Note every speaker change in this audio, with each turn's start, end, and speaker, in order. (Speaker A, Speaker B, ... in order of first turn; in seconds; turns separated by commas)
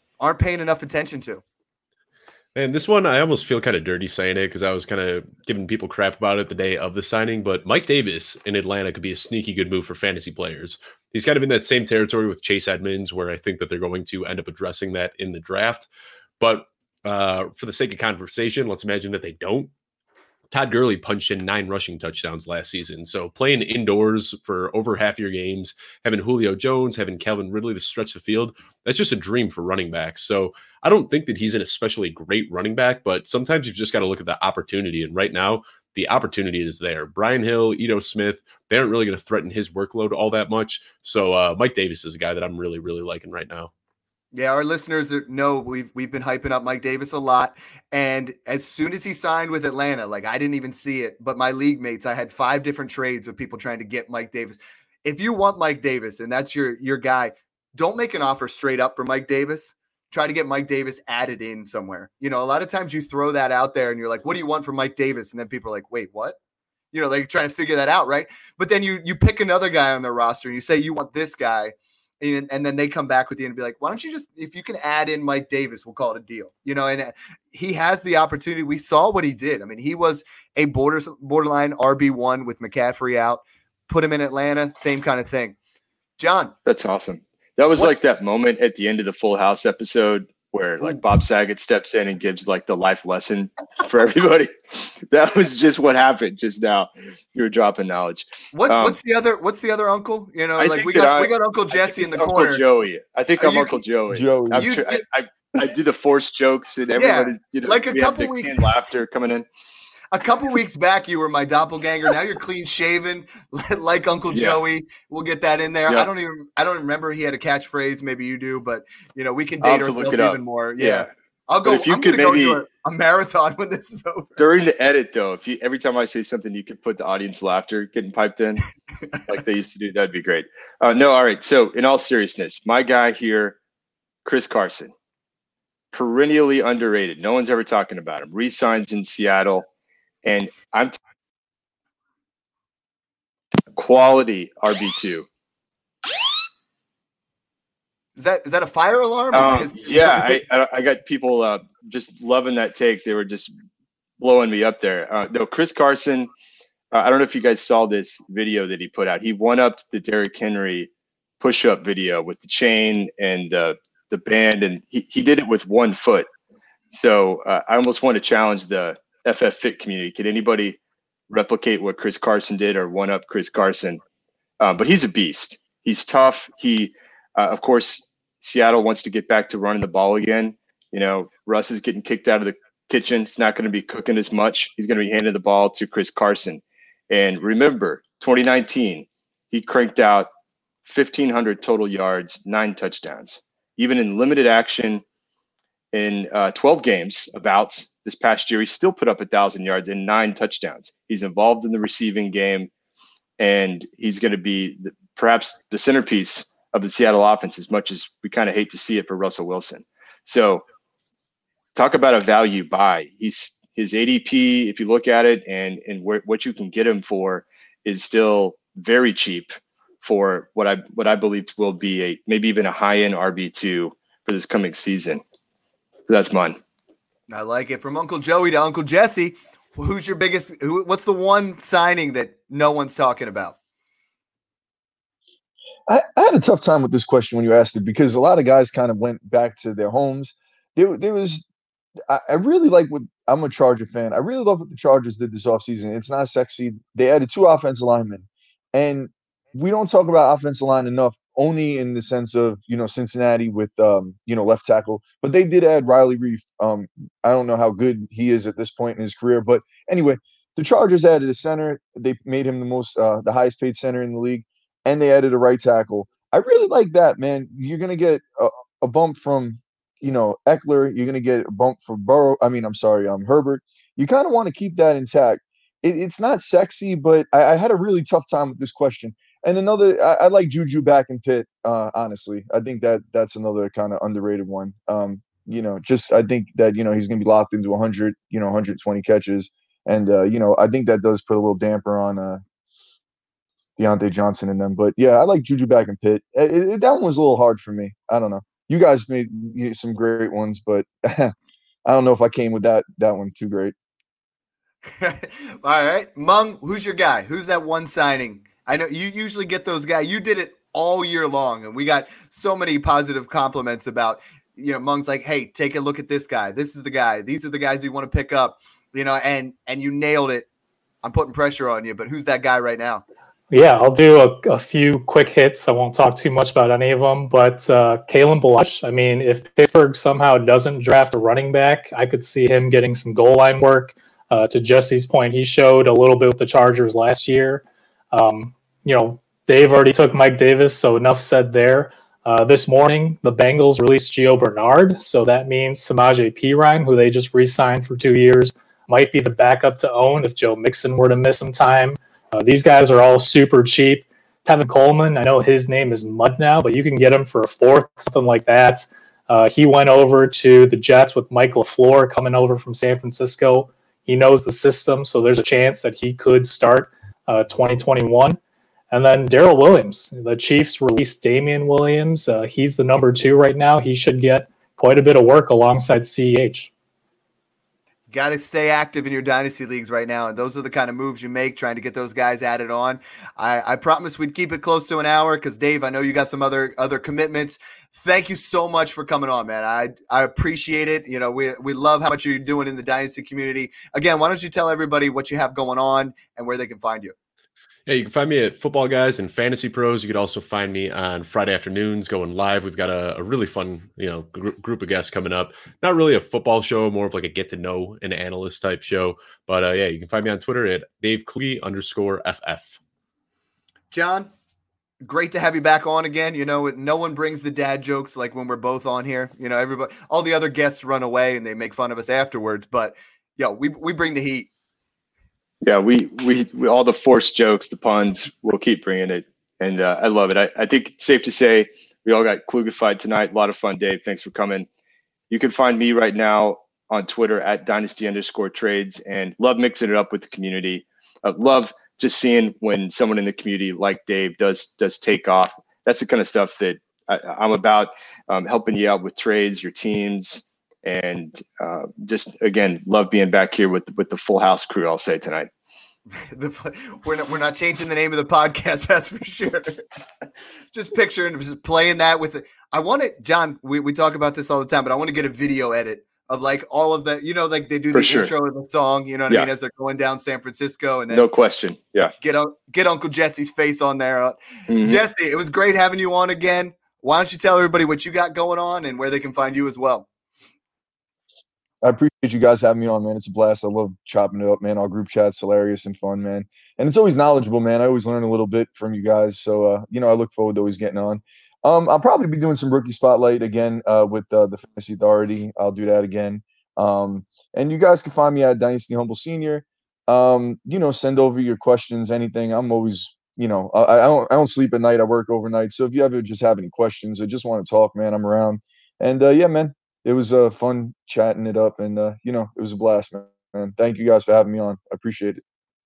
Speaker A: 0.2-1.4, Speaker B: 2.5-15.9, Speaker B: 16.4-19.7, Speaker B: 20.5-43.7, Speaker A: 44.3-66.4, Speaker A: 66.9-85.5, Speaker A: 86.2-86.5, Speaker C: 86.7-99.0, Speaker A: 98.5-102.6, Speaker C: 100.6-109.5, Speaker A: 103.4-103.8, Speaker D: 104.1-104.7, Speaker A: 104.5-105.0, Speaker A: 106.9-108.7, Speaker A: 110.1-124.4, Speaker C: 114.3-114.6, Speaker C: 119.6-121.1, Speaker C: 121.6-122.6, Speaker C: 124.4-128.6, Speaker C: 129.3-133.6, Speaker C: 134.2-134.9, Speaker C: 135.9-139.7, Speaker C: 140.2-141.0, Speaker C: 143.7-145.3, Speaker A: 148.2-150.4, Speaker C: 149.3-153.5, Speaker C: 154.2-156.3, Speaker C: 156.9-160.9, Speaker C: 161.4-166.3, Speaker C: 166.9-174.0, Speaker C: 174.6-190.3, Speaker C: 190.8-195.0, Speaker C: 195.9-202.7, Speaker C: 203.4-210.6, Speaker C: 211.7-225.2, Speaker C: 226.1-226.6, Speaker A: 227.3-233.6, Speaker D: 235.9-241.4, Speaker D: 242.1-292.4, Speaker D: 293.8-301.3, Speaker D: 301.8-303.7, Speaker A: 304.9-320.5, Speaker A: 321.0-323.0, Speaker E: 323.5-368.4, Speaker E: 368.9-376.7, Speaker A: 378.1-397.1, Speaker B: 397.9-412.8, Speaker A: 413.9-414.3, Speaker A: 415.0-424.5, Speaker C: 425.6-434.7, Speaker C: 435.3-455.5, Speaker A: 456.2-459.8, Speaker A: 460.7-471.2, Speaker C: 467.9-468.3, Speaker C: 471.1-472.1, Speaker A: 472.2-480.1, Speaker C: 474.7-475.0, Speaker D: 481.8-515.4